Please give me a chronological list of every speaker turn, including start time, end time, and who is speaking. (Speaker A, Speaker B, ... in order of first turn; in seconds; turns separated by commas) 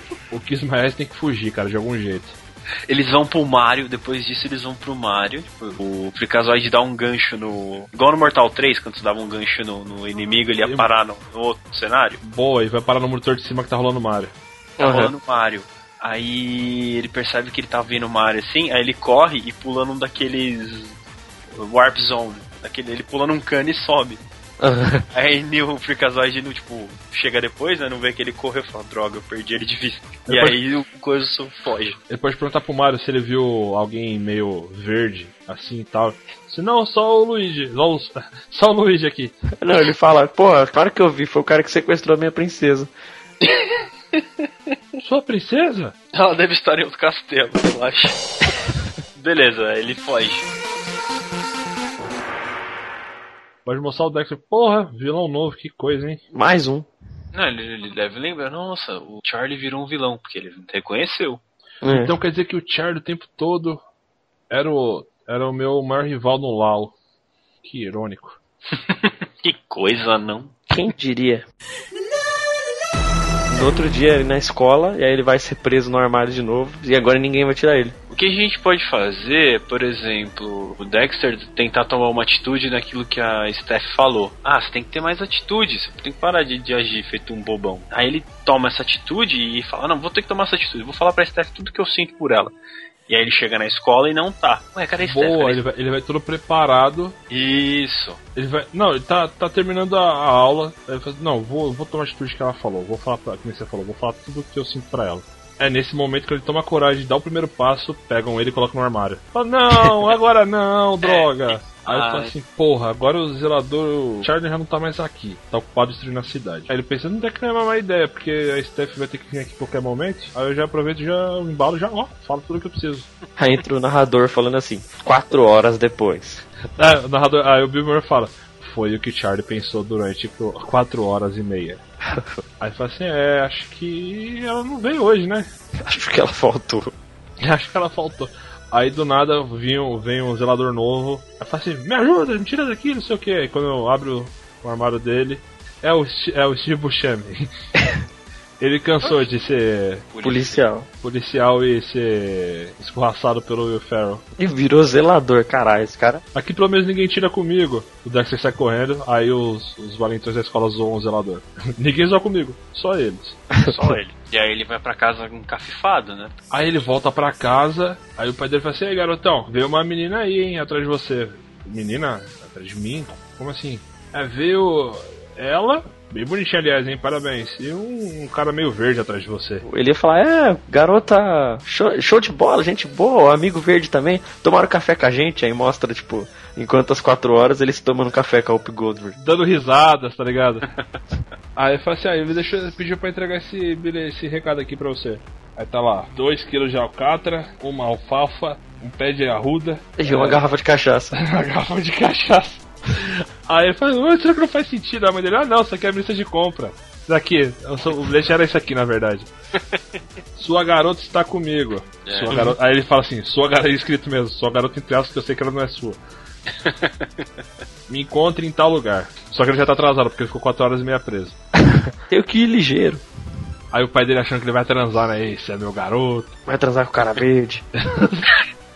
Speaker A: 0.3-2.4, Speaker B: 2.9-12.2, Speaker A: 10.6-10.9, Speaker A: 12.2-14.3, Speaker C: 14.8-15.1, Speaker B: 14.8-21.0, Speaker B: 21.5-24.2, Speaker C: 24.6-25.0, Speaker B: 25.1-32.0, Speaker A: 30.3-30.6, Speaker A: 32.1-39.4, Speaker C: 39.6-42.9, Speaker B: 43.4-44.2, Speaker A: 45.0-46.0, Speaker B: 46.1-48.2, Speaker B: 49.2-50.5, Speaker A: 53.6-56.2, Speaker C: 56.3-56.9, Speaker B: 57.3-61.4, Speaker C: 61.8-62.1, Speaker A: 61.9-63.8, Speaker A: 64.5-67.0, Speaker A: 67.6-68.4, Speaker B: 68.7-70.5, Speaker C: 70.7-71.5, Speaker C: 73.5-78.0, Speaker B: 78.1-92.5, Speaker B: 93.1-95.6, Speaker A: 95.0-97.2, Speaker B: 97.3-98.2, Speaker A: 98.3-123.1, Speaker B: 111.0-112.3, Speaker C: 123.4-126.4, Speaker A: 126.8-131.8, Speaker A: 132.6-135.5, Speaker C: 135.8-136.9, Speaker A: 137.4-147.5, Speaker A: 148.6-150.1, Speaker B: 150.1-150.7, Speaker C: 150.2-150.9, Speaker A: 151.0-154.2, Speaker C: 154.4-156.2, Speaker A: 156.3-163.4, Speaker B: 163.6-166.3, Speaker A: 166.5-179.6, Speaker C: 179.6-189.2, Speaker A: 189.2-190.7, Speaker A: 191.6-200.5, Speaker C: 200.0-201.2, Speaker A: 201.1-209.3, Speaker A: 210.4-216.0, Speaker B: 212.1-212.5, Speaker B: 216.6-217.3, Speaker A: 217.9-221.4, Speaker C: 221.7-223.0, Speaker A: 223.7-226.3, Speaker C: 226.5-227.7, Speaker A: 227.8-228.3